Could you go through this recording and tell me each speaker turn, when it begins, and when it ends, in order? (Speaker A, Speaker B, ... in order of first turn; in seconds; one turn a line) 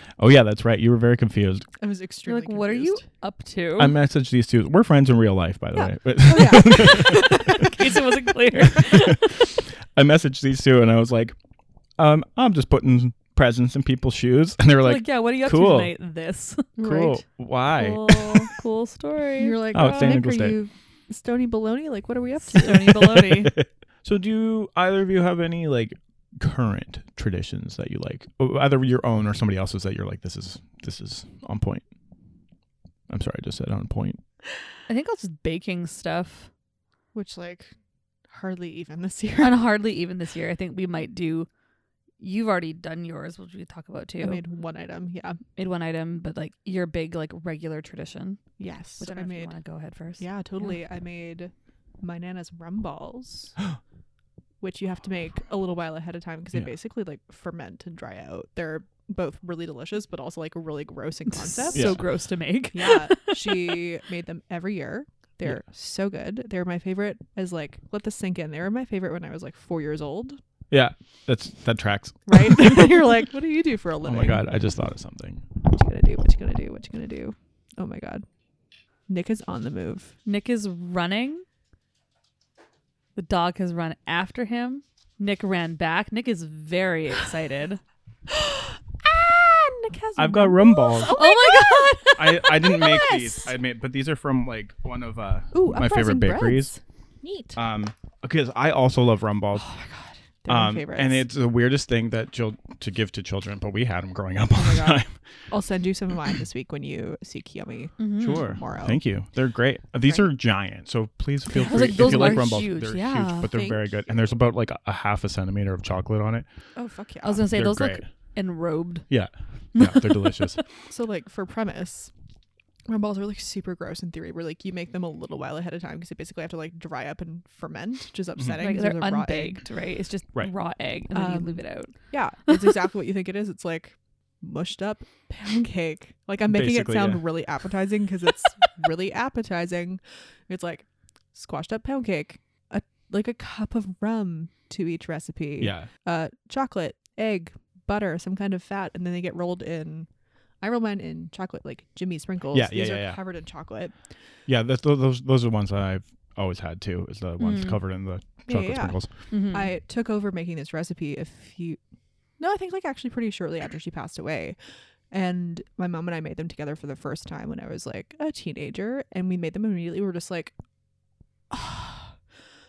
Speaker A: 0.2-1.7
Speaker B: 1.8-3.0
Speaker C: 2.2-3.9
Speaker A: 3.8-7.7
Speaker B: 5.8-7.7
Speaker C: 7.1-9.5
Speaker A: 8.5-11.3
Speaker A: 12.0-15.9
Speaker C: 14.8-16.8
Speaker B: 16.8-17.2
Speaker A: 16.8-18.5
Speaker C: 17.8-20.2
Speaker B: 19.4-23.4
Speaker A: 19.7-20.6
Speaker C: 22.5-23.5
Speaker A: 23.1-31.8
Speaker A: 33.1-34.2
Speaker C: 34.9-36.5
Speaker B: 37.1-37.7
Speaker B: 38.3-39.6
Speaker C: 39.4-41.5
Speaker C: 42.2-44.4
Speaker B: 44.2-45.4
Speaker C: 45.5-50.8
Speaker B: 48.6-49.5
Speaker B: 50.2-53.5
Speaker B: 54.6-62.0
Speaker C: 61.3-63.8
Speaker A: 61.7-62.0
Speaker B: 62.7-70.4
Speaker A: 70.7-72.8
Speaker B: 72.3-74.5
Speaker A: 74.0-75.4
Speaker B: 75.6-78.2
Speaker B: 79.1-80.2
Speaker C: 80.2-81.4
Speaker C: 83.2-87.8
Speaker B: 88.3-92.4
Speaker A: 90.2-91.2
Speaker C: 91.0-93.5
Speaker A: 92.1-96.7
Speaker B: 95.5-97.6
Speaker A: 97.5-99.7
Speaker B: 99.5-101.2
Speaker A: 100.5-105.2
Speaker B: 104.5-109.0
Speaker C: 108.0-108.5
Speaker A: 108.2-116.5
Speaker C: 111.5-113.5
Speaker B: 113.4-114.3
Speaker B: 116.7-117.5
Speaker C: 117.2-119.1
Speaker A: 117.5-118.0
Speaker A: 119.1-120.6
Speaker C: 119.7-120.6
Speaker B: 120.9-122.1
Speaker B: 122.8-129.6
Speaker C: 128.6-131.9
Speaker B: 131.1-150.1
Speaker A: 136.5-137.2
Speaker A: 145.6-145.9
Speaker B: 150.6-153.9
Speaker A: 152.5-153.2
Speaker A: 154.4-159.1
Speaker C: 157.4-157.8
Speaker B: 158.5-161.8
Speaker C: 159.3-159.7
Speaker B: 162.4-164.6
Speaker B: 165.1-170.5
Speaker B: 171.5-172.2